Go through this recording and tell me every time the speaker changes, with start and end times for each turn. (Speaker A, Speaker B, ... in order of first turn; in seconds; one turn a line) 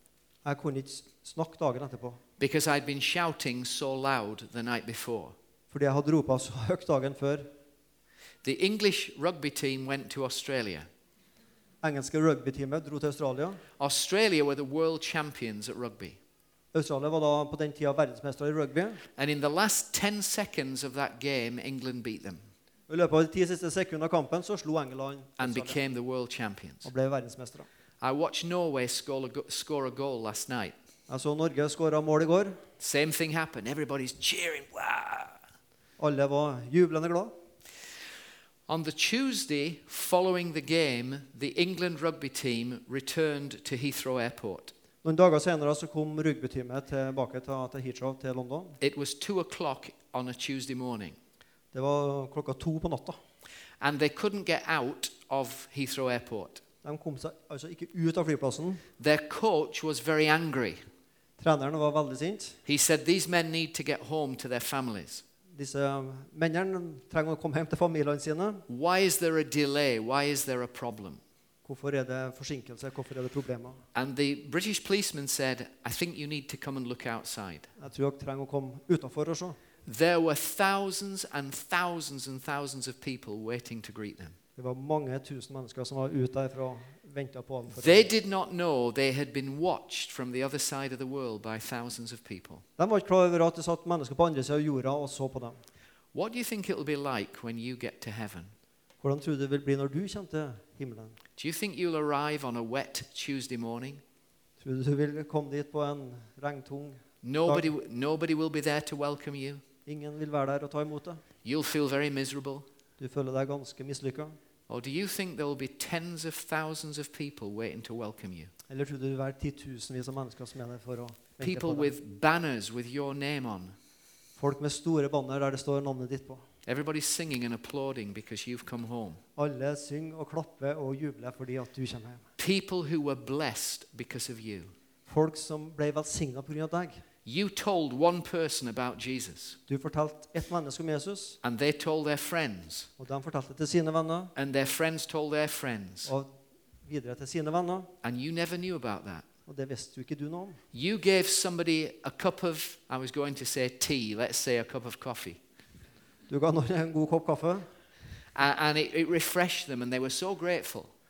Speaker A: 0.5-2.2
Speaker B: 2.4-5.3
Speaker A: 5.7-7.5
Speaker B: 8.4-10.9
Speaker A: 11.8-13.6
Speaker B: 13.8-16.2
Speaker A: 16.7-19.0
Speaker B: 19.2-22.4
Speaker A: 22.9-25.8
Speaker B: 25.4-26.9
Speaker A: 26.8-27.7
Speaker B: 28.0-30.7
Speaker A: 31.1-32.6
Speaker B: 32.8-35.4
Speaker A: 36.0-37.3
Speaker B: 38.7-44.7
Speaker A: 45.0-48.8
Speaker B: 48.8-51.2
Speaker A: 51.7-53.2
Speaker B: 53.8-56.6
Speaker A: 56.8-58.8
Speaker B: 59.0-60.8
Speaker A: 61.4-62.6
Speaker B: 62.7-65.2
Speaker A: 65.5-68.7
Speaker B: 68.7-71.2
Speaker A: 71.7-73.8
Speaker B: 74.0-77.7
Speaker A: 77.8-79.6
Speaker B: 79.9-84.4
Speaker A: 84.6-88.1
Speaker B: 87.7-92.6
Speaker A: 92.8-95.6
Speaker B: 96.1-98.5
Speaker A: 99.0-101.2
Speaker B: 101.4-104.0
Speaker A: 104.6-107.7
Speaker B: 107.2-109.6
Speaker A: 109.9-111.2
Speaker B: 111.4-112.7
Speaker A: 113.0-114.3
Speaker B: 114.7-118.5
Speaker A: 118.7-121.9
Speaker B: 121.4-123.8
Speaker A: 124.4-126.4
Speaker B: 126.7-129.2
Speaker A: 129.4-132.2
Speaker B: 132.4-134.7
Speaker A: 135.1-137.0
Speaker B: 137.2-139.6
Speaker A: 139.7-141.4
Speaker B: 141.4-142.9
Speaker A: 143.0-144.3
Speaker B: 144.4-146.1
Speaker A: 146.1-146.3
Speaker A: 146.9-147.9
Speaker B: 148.0-149.3
Speaker A: 149.5-150.6
Speaker B: 150.7-155.4
Speaker A: 156.3-157.7
Speaker B: 158.3-160.9